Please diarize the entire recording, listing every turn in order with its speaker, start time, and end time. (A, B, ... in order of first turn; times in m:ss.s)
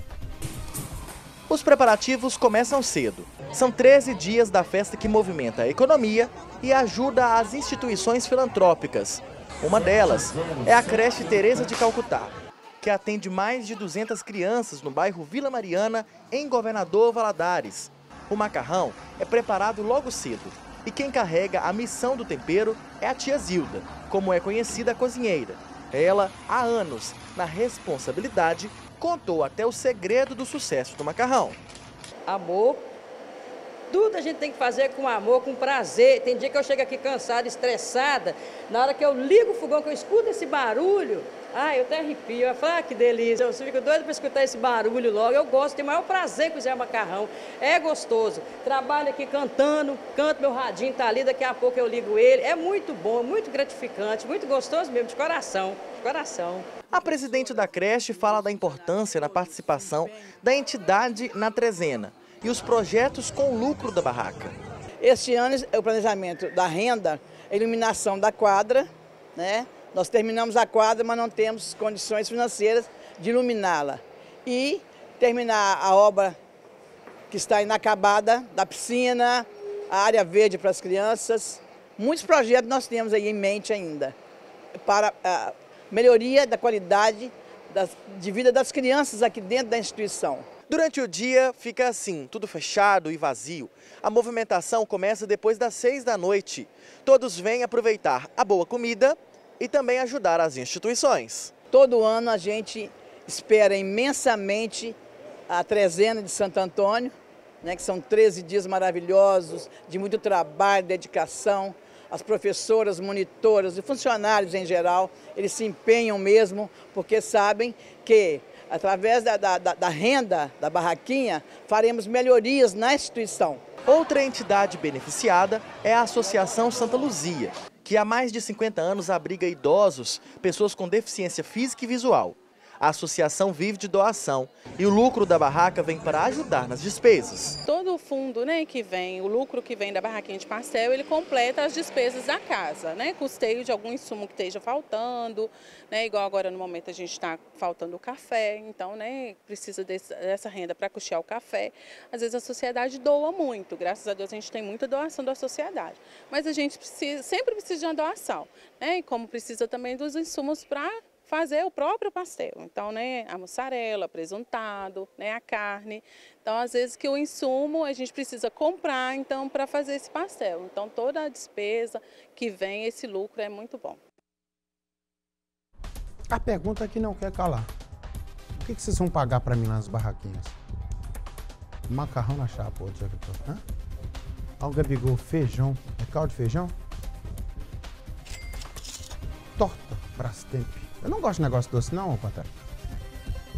0:01.5-0:31.6 A
0:32.3-0:32.8 B
0:33.9-0:56.7 B
0:56.9-1:04.6 A
1:05.0-1:16.4 C
1:17.3-1:24.1 C
1:24.8-1:30.5 C
1:30.7-1:41.5 A
1:41.7-1:45.0 C
1:45.5-2:03.6 C
2:03.8-2:17.6 A
2:17.6-2:54.0 D
2:56.3-2:57.7 E
2:58.6-3:00.6 E
3:01.9-3:03.6 E
3:04.6-3:06.7 E
3:09.6-3:12.5 E